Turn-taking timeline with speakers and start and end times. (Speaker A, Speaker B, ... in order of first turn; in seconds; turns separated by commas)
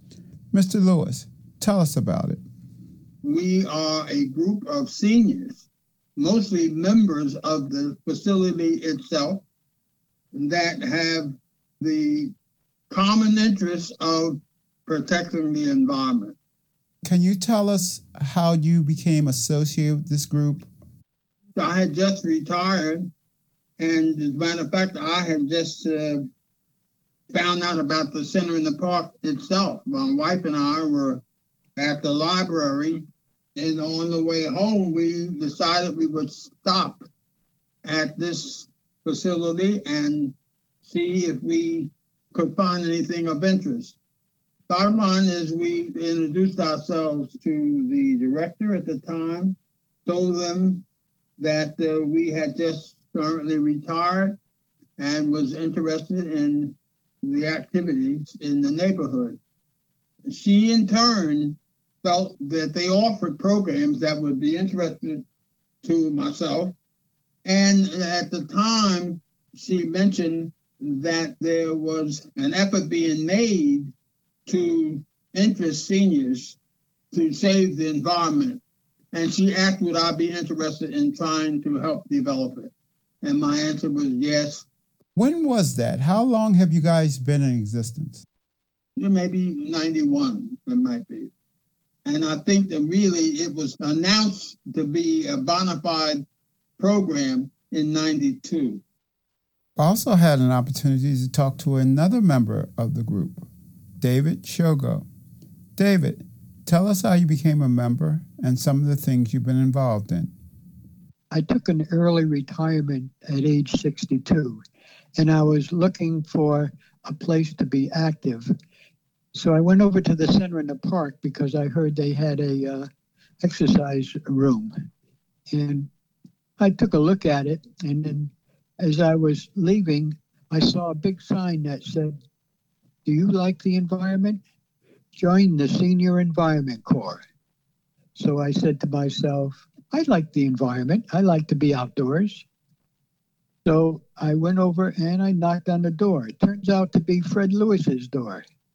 Speaker A: 0.5-2.4, Speaker B: 3.2-5.6, Speaker B: 6.2-9.4, Speaker B: 10.3-12.3, Speaker B: 12.9-16.4, Speaker A: 17.0-20.7, Speaker B: 21.6-23.1, Speaker B: 23.8-26.3, Speaker B: 27.3-31.2, Speaker B: 31.8-33.0, Speaker B: 33.6-37.0, Speaker B: 37.8-40.3, Speaker B: 40.9-44.0, Speaker B: 44.7-50.8, Speaker B: 51.4-54.4, Speaker B: 55.0-59.4, Speaker B: 60.3-65.2, Speaker B: 65.8-66.8, Speaker B: 67.5-73.9, Speaker B: 74.5-76.6, Speaker B: 77.1-78.6, Speaker B: 79.1-82.7, Speaker B: 83.2-84.7, Speaker A: 85.2-88.2, Speaker B: 89.0-91.3, Speaker B: 92.0-96.2, Speaker B: 96.8-98.8, Speaker A: 99.8-103.5, Speaker A: 104.0-105.0, Speaker A: 105.8-110.3, Speaker C: 111.3-114.6, Speaker C: 115.2-118.5, Speaker C: 119.3-122.9, Speaker C: 123.4-124.9, Speaker C: 125.5-125.9, Speaker C: 126.6-132.2, Speaker C: 133.1-134.4, Speaker C: 135.1-137.2, Speaker C: 138.2-142.4, Speaker C: 143.7-148.4